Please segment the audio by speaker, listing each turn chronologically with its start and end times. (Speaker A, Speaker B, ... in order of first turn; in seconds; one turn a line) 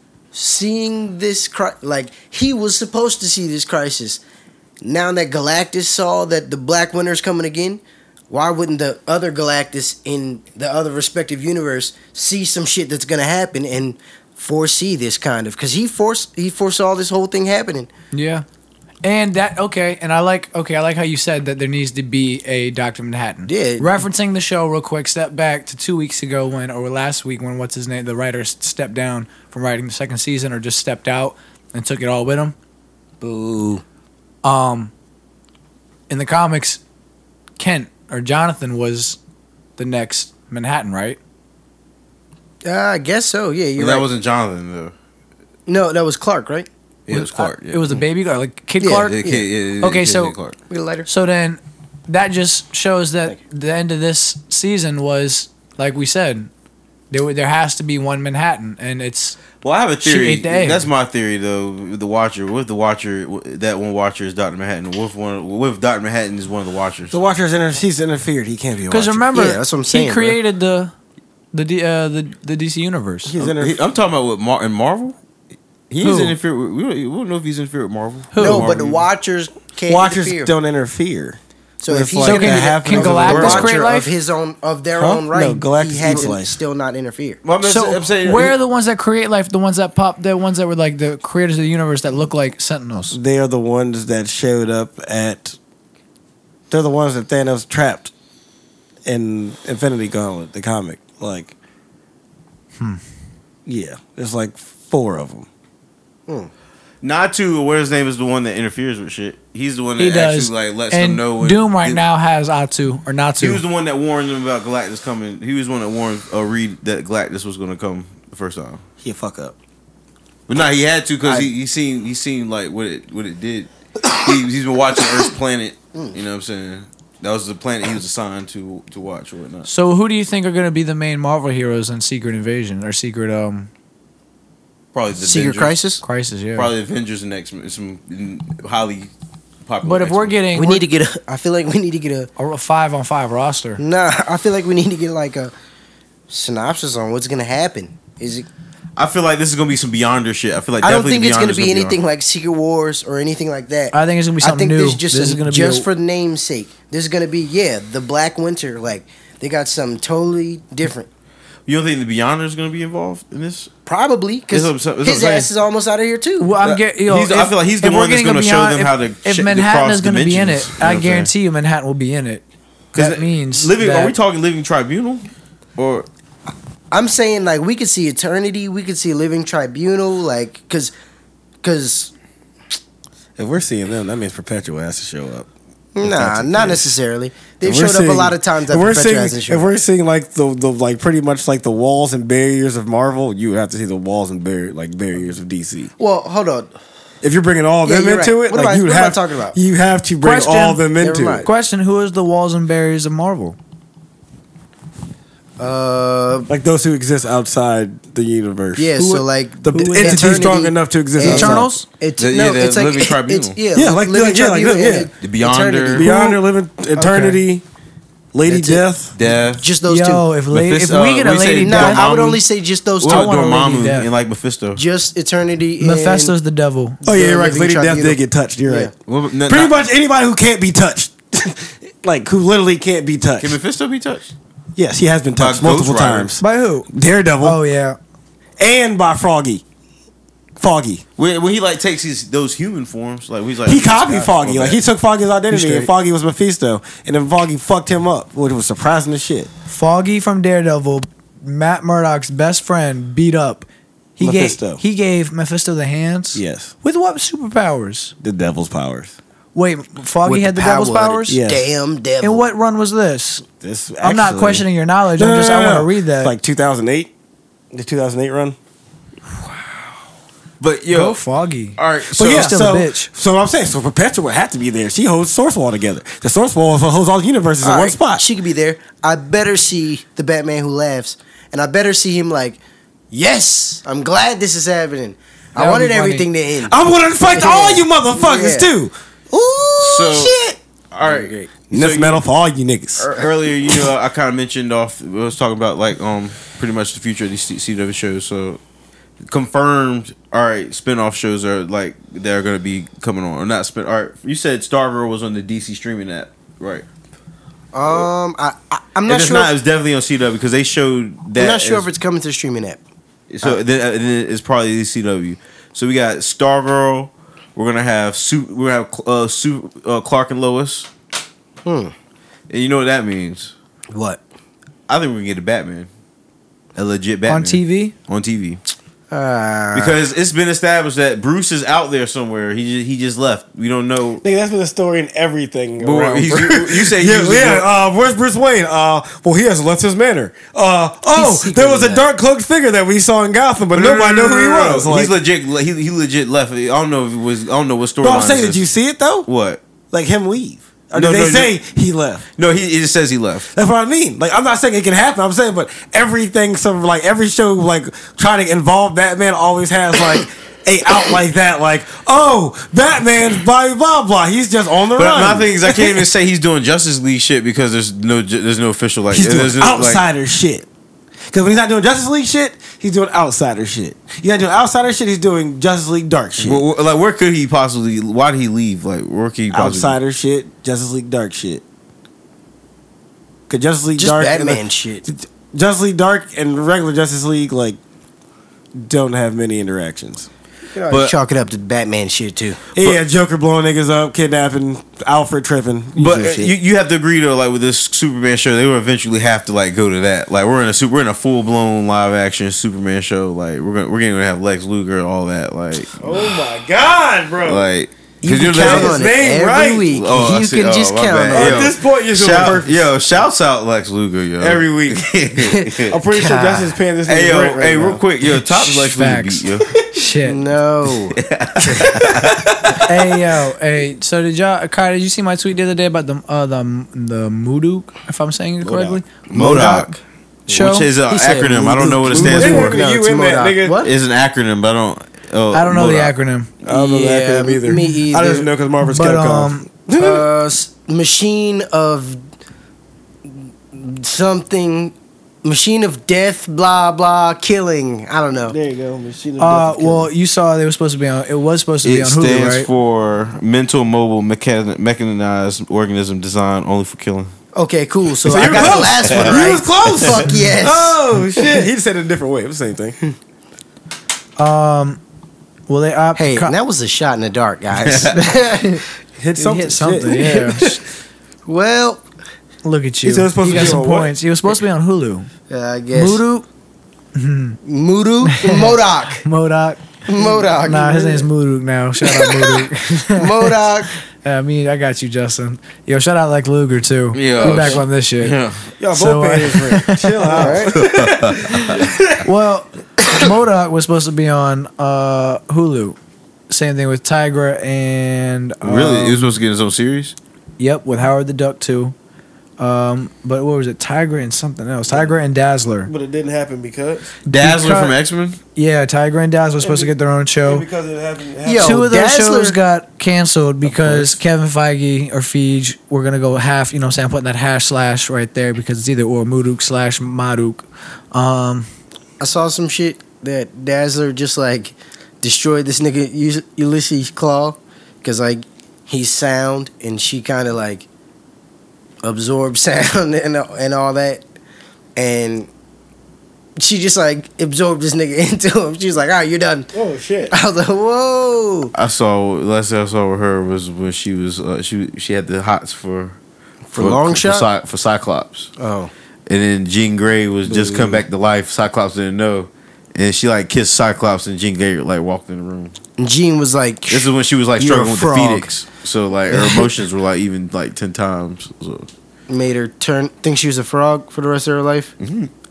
Speaker A: 0.3-4.2
Speaker A: 4.8-17.9
Speaker B: 18.1-18.4
Speaker B: 19.0-32.5
Speaker A: 23.4-23.9
Speaker A: 33.2-33.8
Speaker B: 34.4-34.9
Speaker B: 36.1-36.8
Speaker B: 37.6-39.2
Speaker B: 39.8-41.2
Speaker A: 42.6-44.0
Speaker C: 43.8-44.9
Speaker A: 45.7-46.7
Speaker C: 47.1-48.0
Speaker B: 47.1-49.2
Speaker A: 48.8-49.4
Speaker C: 49.1-50.6
Speaker B: 49.8-50.4
Speaker A: 50.7-51.1
Speaker B: 51.1-56.5
Speaker B: 57.1-59.4
Speaker C: 59.6-67.2
Speaker B: 60.0-60.9
Speaker D: 67.1-69.3
Speaker B: 68.9-70.9
Speaker A: 69.3-70.4
Speaker B: 71.5-73.3
Speaker D: 73.2-73.8
Speaker C: 73.4-75.2
Speaker C: 75.9-79.0
Speaker B: 76.0-76.3
Speaker B: 78.3-78.7
Speaker A: 78.4-80.5
Speaker D: 79.9-83.8
Speaker A: 81.8-87.4
Speaker B: 82.2-84.1
Speaker C: 83.2-83.7
Speaker D: 85.0-86.6
Speaker C: 87.4-88.5
Speaker B: 87.6-93.2
Speaker D: 93.1-95.6
Speaker D: 96.7-98.1
Speaker D: 99.0-101.5
Speaker D: 103.7-105.5
Speaker C: 107.0-112.0
Speaker B: 110.0-113.6
Speaker C: 113.4-118.8
Speaker D: 119.0-119.5
Speaker C: 120.5-129.7
Speaker B: 129.7-133.7
Speaker C: 134.9-135.8
Speaker A: 135.2-136.0
Speaker B: 136.0-136.7
Speaker C: 136.5-139.1
Speaker C: 139.7-140.4
Speaker B: 139.8-140.8
Speaker A: 140.5-142.3
Speaker B: 142.4-143.8
Speaker A: 143.8-145.5
Speaker A: 146.3-148.5
Speaker C: 148.9-152.0
Speaker A: 150.8-161.1
Speaker B: 153.9-155.9
Speaker C: 161.7-163.7
Speaker A: 163.8-166.5
Speaker C: 164.5-165.5
Speaker B: 166.4-172.4
Speaker C: 166.6-171.3
Speaker C: 172.9-176.1
Speaker B: 172.9-174.1
Speaker A: 176.9-180.9
Speaker A: 181.6-182.1
Speaker D: 183.4-185.5
Speaker A: 185.9-189.7
Speaker D: 186.0-186.9
Speaker D: 187.6-195.9
Speaker A: 196.0-196.7
Speaker D: 197.2-201.4
Speaker A: 197.8-199.6
Speaker B: 200.2-200.8
Speaker A: 201.0-201.5
Speaker B: 201.4-203.6
Speaker A: 205.6-206.5
Speaker D: 206.5-209.0
Speaker A: 208.8-216.1
Speaker B: 209.0-210.5
Speaker D: 209.6-211.8
Speaker B: 211.2-211.8
Speaker C: 212.2-213.6
Speaker D: 213.7-215.1
Speaker C: 215.2-216.1
Speaker D: 215.9-217.6
Speaker B: 216.1-216.4
Speaker B: 216.9-217.4
Speaker D: 218.3-219.1
Speaker A: 218.4-218.8
Speaker C: 219.1-219.7
Speaker A: 219.6-220.3
Speaker B: 219.8-222.1
Speaker C: 220.5-222.4
Speaker A: 221.6-223.3
Speaker C: 223.0-224.8
Speaker B: 223.1-224.1
Speaker A: 224.7-226.3
Speaker B: 225.8-227.0
Speaker D: 227.0-228.9
Speaker A: 227.0-228.9
Speaker C: 229.1-229.8
Speaker D: 229.5-233.6
Speaker C: 233.4-234.3
Speaker D: 234.8-237.6
Speaker C: 235.3-236.3
Speaker B: 236.4-236.9
Speaker B: 237.4-238.0
Speaker D: 238.6-239.6
Speaker D: 240.6-241.0
Speaker C: 241.2-244.8
Speaker D: 243.6-249.5
Speaker B: 245.5-245.9
Speaker B: 249.7-258.1
Speaker D: 254.2-254.8
Speaker D: 256.3-256.7
Speaker D: 258.2-259.1
Speaker B: 259.5-261.4
Speaker A: 260.2-262.4
Speaker D: 261.3-261.6
Speaker B: 262.2-263.5
Speaker D: 263.6-267.1
Speaker B: 264.0-266.3
Speaker D: 267.7-268.6
Speaker C: 270.6-271.2
Speaker B: 270.9-273.1
Speaker C: 271.8-272.5
Speaker D: 272.1-278.2
Speaker A: 277.6-282.6
Speaker A: 283.1-286.8
Speaker B: 285.6-286.3
Speaker D: 286.6-288.9
Speaker A: 287.3-288.7
Speaker A: 289.3-291.5
Speaker C: 289.8-290.4
Speaker C: 290.9-292.2
Speaker D: 291.7-293.1
Speaker C: 293.0-298.6
Speaker C: 299.3-306.8
Speaker A: 307.7-309.5
Speaker C: 309.1-311.9
Speaker A: 311.4-312.8
Speaker C: 313.3-320.9
Speaker A: 321.6-321.9
Speaker C: 322.5-323.5
Speaker A: 323.9-324.2
Speaker C: 324.9-325.9
Speaker C: 326.8-328.6
Speaker B: 327.3-327.9
Speaker A: 329.1-330.0
Speaker C: 329.7-334.2
Speaker D: 334.2-345.1
Speaker C: 335.8-337.6
Speaker A: 341.1-342.1
Speaker C: 343.7-348.6
Speaker D: 348.0-349.3
Speaker C: 349.2-349.6
Speaker D: 349.9-352.2
Speaker C: 350.9-351.5
Speaker C: 352.4-353.5
Speaker D: 353.5-366.1
Speaker C: 364.9-370.0
Speaker D: 369.1-370.6
Speaker D: 371.3-376.6
Speaker C: 376.4-380.0
Speaker D: 379.5-381.6
Speaker D: 383.5-387.8
Speaker A: 384.0-385.1
Speaker D: 388.8-390.3
Speaker A: 390.7-392.6
Speaker D: 392.7-396.5
Speaker C: 395.9-406.2
Speaker D: 406.0-407.7
Speaker C: 407.4-409.1
Speaker A: 408.2-411.7
Speaker D: 408.5-409.9
Speaker C: 409.9-415.9
Speaker D: 411.3-412.9
Speaker D: 414.4-415.1
Speaker A: 415.4-416.8
Speaker D: 415.9-418.0
Speaker C: 417.1-419.7
Speaker B: 418.3-420.4
Speaker A: 420.2-421.2
Speaker C: 421.1-422.8
Speaker D: 421.8-422.9
Speaker B: 422.8-429.9
Speaker D: 428.6-429.0
Speaker C: 429.3-429.9
Speaker A: 429.4-429.7
Speaker B: 430.5-430.9
Speaker C: 430.5-432.8
Speaker A: 431.1-433.9
Speaker D: 432.1-433.8
Speaker C: 433.8-436.1
Speaker B: 435.5-436.5
Speaker D: 436.6-440.3
Speaker A: 436.6-438.5
Speaker B: 438.8-439.6
Speaker A: 439.9-442.2
Speaker A: 443.3-448.6
Speaker D: 448.5-450.1
Speaker B: 449.4-452.7
Speaker C: 451.8-457.3
Speaker A: 457.5-461.6
Speaker D: 458.2-463.0
Speaker C: 458.4-459.5
Speaker B: 464.4-465.0
Speaker B: 465.7-466.5
Speaker A: 466.1-468.8
Speaker C: 467.8-468.2
Speaker D: 469.2-470.4
Speaker B: 469.4-470.8
Speaker A: 470.0-470.8
Speaker A: 471.5-472.0
Speaker B: 472.6-475.3
Speaker D: 473.0-474.1
Speaker A: 475.5-476.2
Speaker B: 475.9-476.4
Speaker B: 477.1-477.6
Speaker A: 477.6-479.2
Speaker B: 478.2-483.6
Speaker A: 480.1-481.3
Speaker A: 482.0-483.9
Speaker B: 484.2-488.4
Speaker C: 487.1-488.6
Speaker A: 487.5-487.8
Speaker D: 488.8-491.9
Speaker B: 488.9-490.6
Speaker A: 490.3-490.7
Speaker C: 490.7-491.9
Speaker B: 492.2-496.0
Speaker B: 496.5-499.4
Speaker C: 498.6-500.1
Speaker B: 500.6-501.9
Speaker B: 502.6-505.9
Speaker D: 504.9-505.1
Speaker D: 505.9-507.1
Speaker C: 507.3-508.4
Speaker B: 507.3-507.9
Speaker B: 508.5-510.6
Speaker D: 509.6-511.8
Speaker A: 511.4-512.6
Speaker B: 511.6-521.7
Speaker D: 513.6-514.2
Speaker A: 522.2-530.9
Speaker A: 532.0-534.2
Speaker A: 535.0-535.5
Speaker A: 536.6-539.7
Speaker D: 539.7-540.3
Speaker A: 540.3-541.7
Speaker C: 541.7-546.2
Speaker A: 546.7-547.5
Speaker C: 546.8-548.5
Speaker A: 548.6-548.9
Speaker C: 549.3-555.7
Speaker A: 550.5-551.0
Speaker A: 556.0-558.5
Speaker C: 556.9-561.9
Speaker A: 559.3-559.7
Speaker A: 562.3-564.9
Speaker C: 565.0-565.3